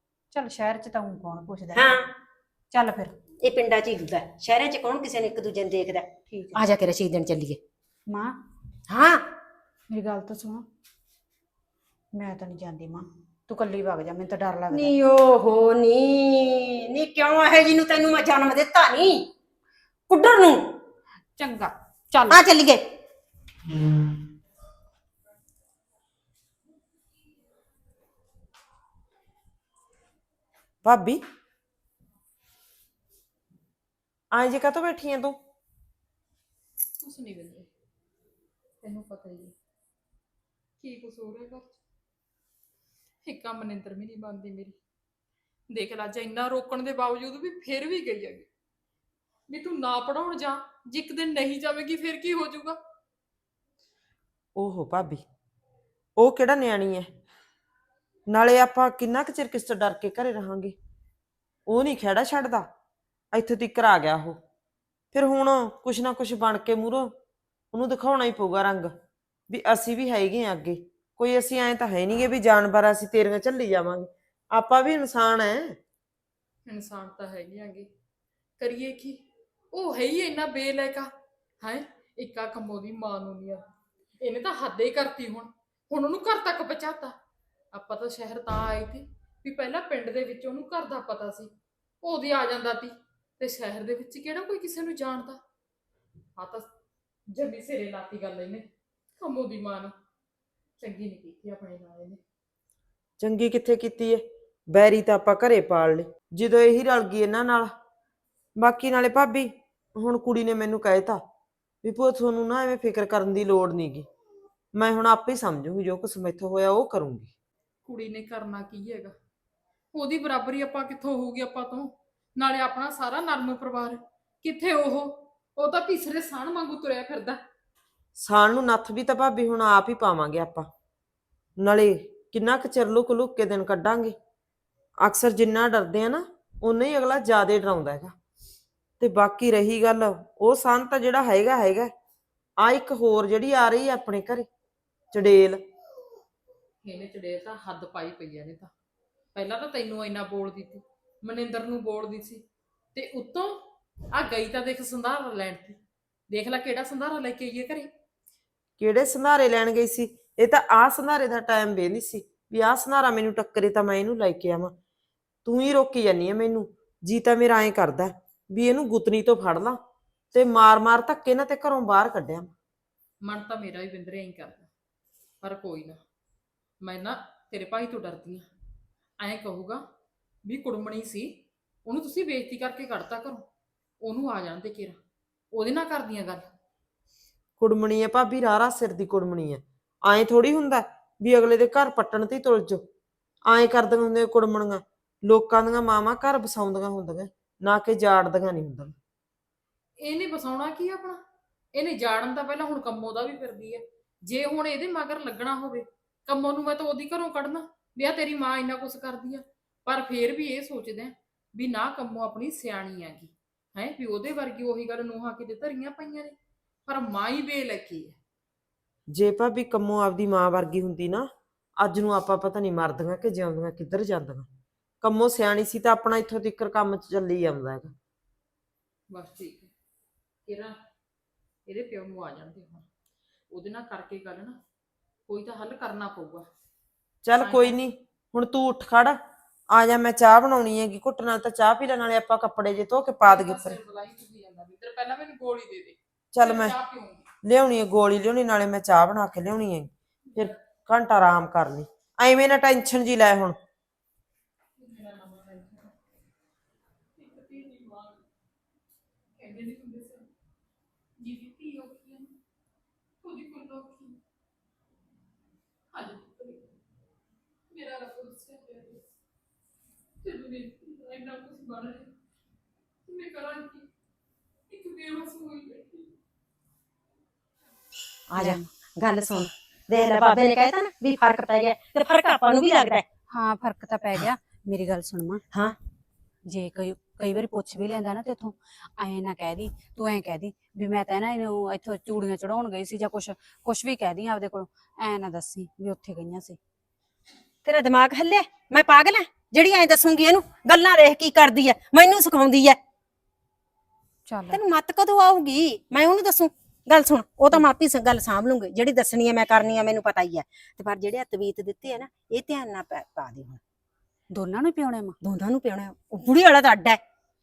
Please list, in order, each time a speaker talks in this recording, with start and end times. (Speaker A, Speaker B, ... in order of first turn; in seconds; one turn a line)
Speaker A: 0.3-2.0
Speaker B: 1.7-2.1
Speaker A: 2.7-3.1
Speaker B: 3.4-7.6
Speaker A: 6.3-6.6
Speaker B: 8.9-9.2
Speaker A: 9.9-10.6
Speaker A: 12.1-14.9
Speaker B: 14.7-19.3
Speaker B: 20.1-20.8
Speaker A: 21.4-22.4
Speaker B: 22.3-22.8
Speaker C: 30.8-31.2
Speaker C: 34.3-35.4
Speaker D: 37.0-37.7
Speaker D: 38.8-39.5
Speaker D: 40.8-41.7
Speaker D: 43.2-44.7
Speaker D: 45.7-48.5
Speaker D: 49.5-52.8
Speaker C: 54.5-55.2
Speaker C: 56.2-57.1
Speaker C: 58.3-60.8
Speaker C: 61.7-62.7
Speaker C: 63.3-64.4
Speaker C: 65.1-67.1
Speaker C: 67.7-68.9
Speaker C: 69.5-75.8
Speaker D: 76.7-77.9
Speaker D: 78.6-79.2
Speaker D: 79.7-81.1
Speaker D: 81.6-83.7
Speaker D: 84.2-87.1
Speaker D: 87.7-91.5
Speaker D: 92.0-95.4
Speaker D: 96.4-96.7
Speaker D: 97.3-98.7
Speaker D: 99.2-99.9
Speaker D: 100.8-102.2
Speaker C: 103.2-107.7
Speaker C: 108.6-111.2
Speaker C: 111.8-114.0
Speaker C: 114.7-117.3
Speaker D: 117.8-119.1
Speaker D: 119.9-127.4
Speaker C: 128.2-130.7
Speaker C: 131.6-134.2
Speaker C: 135.0-138.1
Speaker C: 139.0-141.9
Speaker C: 142.6-144.5
Speaker C: 145.1-145.6
Speaker D: 146.8-148.7
Speaker D: 149.3-152.4
Speaker D: 152.9-153.6
Speaker D: 154.1-155.8
Speaker D: 156.3-157.9
Speaker C: 158.8-164.7
Speaker C: 165.4-169.8
Speaker C: 170.3-172.5
Speaker D: 173.2-174.7
Speaker D: 175.4-176.0
Speaker D: 176.8-178.4
Speaker D: 179.2-179.8
Speaker D: 180.4-183.4
Speaker D: 184.0-185.0
Speaker D: 185.5-186.5
Speaker C: 187.6-192.8
Speaker C: 193.4-198.9
Speaker D: 200.0-201.2
Speaker D: 201.7-216.3
Speaker D: 216.9-218.2
Speaker C: 219.1-221.2
Speaker C: 221.8-224.5
Speaker C: 225.0-227.9
Speaker D: 229.1-229.7
Speaker D: 230.4-230.8
Speaker D: 231.7-232.8
Speaker D: 233.5-234.6
Speaker D: 235.3-236.5
Speaker C: 237.2-239.2
Speaker D: 237.4-237.7
Speaker C: 239.7-243.8
Speaker D: 243.2-247.2
Speaker C: 246.3-246.8
Speaker C: 247.4-253.6
Speaker D: 254.8-255.9
Speaker D: 257.2-258.2
Speaker D: 259.4-260.3
Speaker D: 261.2-262.3
Speaker D: 263.2-264.2
Speaker D: 265.9-266.7
Speaker D: 267.7-269.1
Speaker D: 270.2-272.1
Speaker D: 273.1-273.8
Speaker D: 274.7-276.1
Speaker B: 278.3-283.0
Speaker A: 283.3-285.4
Speaker A: 286.4-296.6
Speaker B: 297.6-302.8
Speaker A: 304.3-304.6
Speaker B: 304.5-313.6
Speaker A: 314.3-315.1
Speaker B: 315.2-317.0